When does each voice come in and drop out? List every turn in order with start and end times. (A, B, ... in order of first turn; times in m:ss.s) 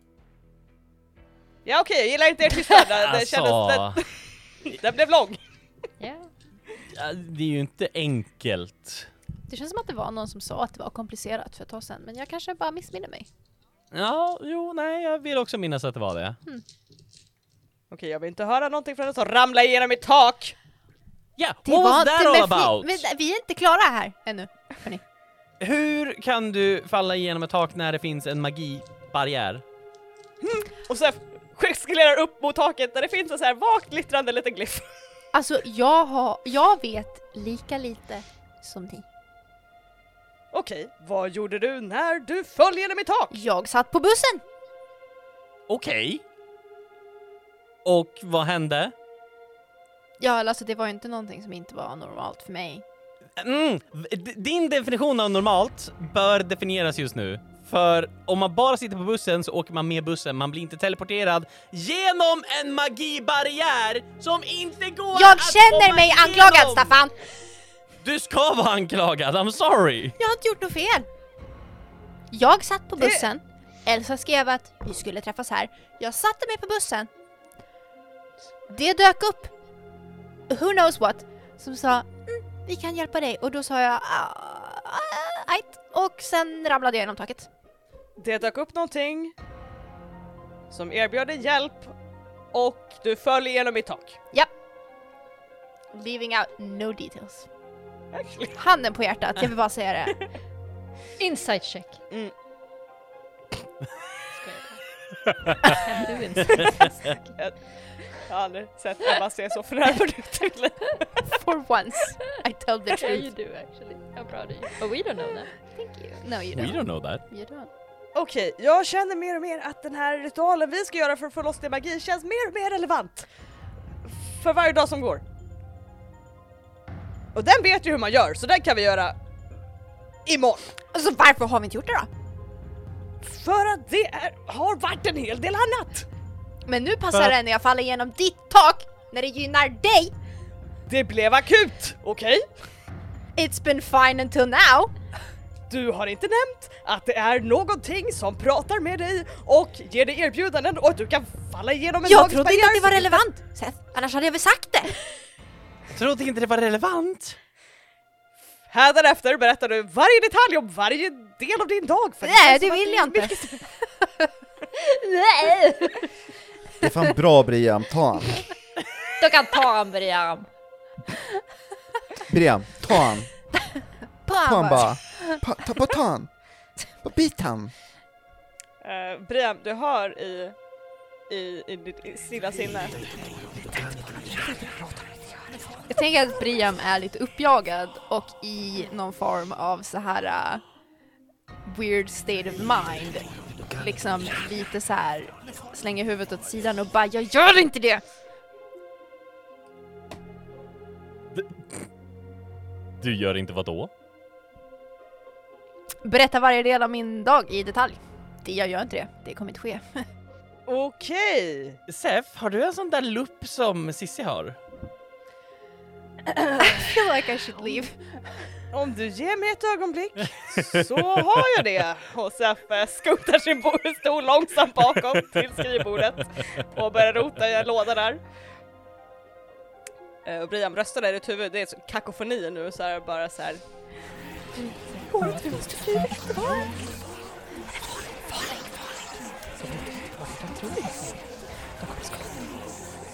0:01.6-0:05.4 A
0:02.9-0:04.0 B
0:06.0-0:06.3 C
0:06.9-0:09.1 B
0:09.5-0:13.3 D
0:13.9-0:16.4 B
0:17.9-0:20.6 A
0:21.4-0:23.0 B
0:21.6-0:25.0 D
0:25.6-0:29.6 B
0:30.4-0:35.0 A
0:35.3-0:39.0 D
0:40.5-0:43.4 A
0:43.3-0:44.4 D
0:45.7-0:46.2 B
0:47.8-0:48.9 B
0:50.2-0:52.8 D
0:53.4-1:07.0 B
1:05.1-1:07.2 D
1:08.0-1:10.2 B
1:10.2-1:11.1 D
1:12.3-1:17.1 D
1:13.0-1:13.3 A
1:18.7-1:19.5 D
1:20.5-1:27.5 D
1:28.2-1:29.3 A
1:30.7-1:31.9 A
1:32.5-1:34.2 A
1:35.9-1:37.5 D
1:38.1-1:38.6 A
1:38.5-1:40.2 D
1:41.2-1:42.0 C
1:44.4-1:44.8 C
1:45.6-1:47.2 C
1:46.8-1:51.4 A
1:51.3-1:53.3 D
1:52.9-1:55.5 C
1:55.7-1:57.7 D
1:56.5-1:57.2 B
1:58.1-2:03.3 A
2:04.0-2:05.2 A
2:07.3-2:09.2 A
2:10.2-2:10.7 A
2:10.9-2:12.1 D
2:13.2-2:16.1 A
2:16.6-2:20.1 D
2:20.9-2:22.5 A
2:23.4-2:24.9 D
2:25.7-2:33.2 A
2:32.0-2:35.0 D
2:35.9-2:37.4 B
2:38.7-2:43.6 A
2:42.2-2:44.3 D
2:44.8-2:46.1 C
2:46.8-2:48.4 E
2:49.2-2:50.5 C
2:52.3-2:53.3 E
2:54.2-2:55.4 D
2:54.4-2:56.3 E
2:57.0-2:57.7 E
2:58.8-3:00.6 A
3:01.3-3:03.1 A
3:03.7-3:05.3 A
3:05.9-3:10.6 D
3:11.6-3:18.0 D
3:21.3-3:21.9 B
3:23.0-3:23.9 B
3:26.0-3:30.1 D
3:30.7-3:31.8 A
3:31.9-3:34.6 B
3:36.2-3:36.8 A
3:36.6-3:38.2 D
3:38.7-3:48.2 A
3:50.2-3:53.6 A
3:54.6-3:56.9 A
3:58.3-3:58.9 A
3:59.6-4:01.1 A
4:01.9-4:02.3 A